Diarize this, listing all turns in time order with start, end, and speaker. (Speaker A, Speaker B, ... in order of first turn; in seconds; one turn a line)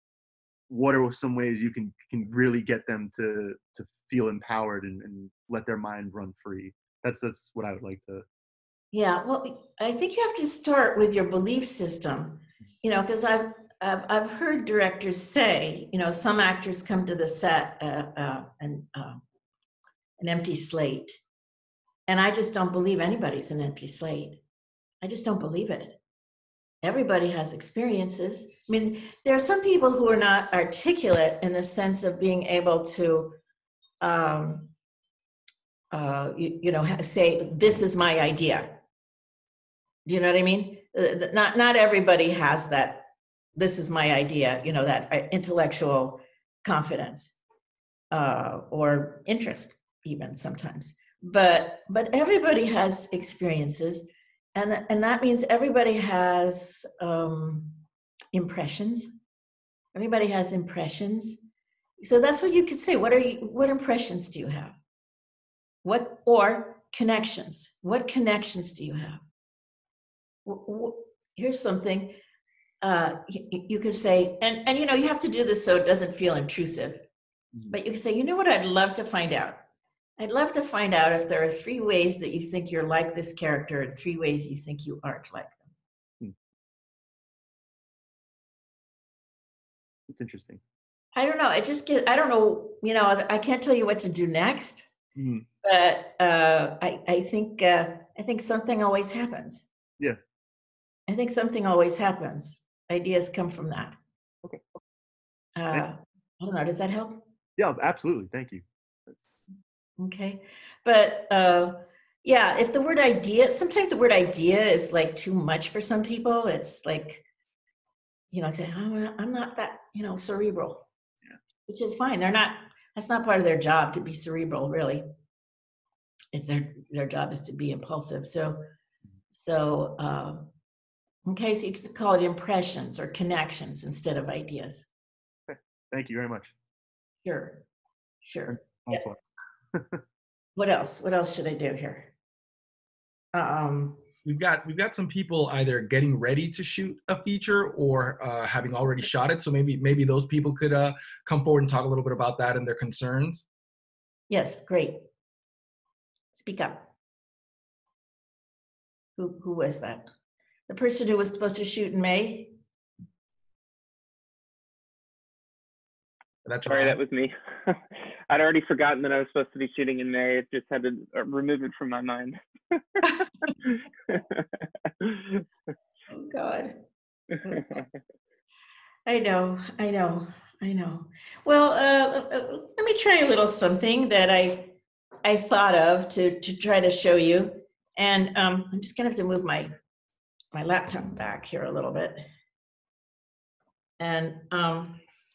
Speaker A: 0.7-8.2
Speaker B: 8.9-19.2
Speaker B: 20.2-21.2
Speaker B: 22.1-24.4
Speaker B: 25.0-26.0
Speaker B: 26.8-33.4
Speaker B: 34.0-34.7
Speaker B: 35.9-38.8
Speaker B: 40.0-47.3
Speaker B: 48.1-57.8
Speaker B: 58.3-59.1
Speaker B: 59.9-61.4
Speaker B: 62.0-64.7
Speaker B: 65.8-69.2
Speaker B: 70.5-72.2
Speaker B: 72.8-77.0
Speaker B: 77.7-79.6
Speaker B: 80.2-85.7
Speaker A: 90.1-90.6
Speaker B: 91.1-94.9
Speaker A: 95.2-95.5
Speaker B: 95.6-99.6
Speaker B: 101.1-104.0
Speaker A: 104.4-104.8
Speaker B: 105.5-107.2
Speaker A: 107.6-109.4
Speaker B: 110.0-117.2
Speaker B: 118.3-120.8
Speaker B: 121.7-125.0
Speaker B: 126.3-128.6
Speaker B: 129.3-130.5
Speaker B: 131.2-134.8
Speaker A: 135.5-136.6
Speaker B: 137.2-137.6
Speaker B: 138.2-139.0
Speaker A: 138.6-139.2
Speaker A: 139.7-140.0
Speaker B: 140.6-142.1
Speaker B: 143.3-144.0
Speaker C: 144.2-153.4
Speaker B: 154.3-155.0
Speaker B: 156.3-156.9
Speaker B: 159.2-160.1
Speaker B: 160.7-162.5
Speaker C: 166.4-167.0
Speaker D: 166.7-172.4
Speaker D: 173.2-173.5
Speaker B: 176.1-176.7
Speaker B: 179.1-189.7
Speaker B: 190.5-192.2
Speaker B: 194.0-195.0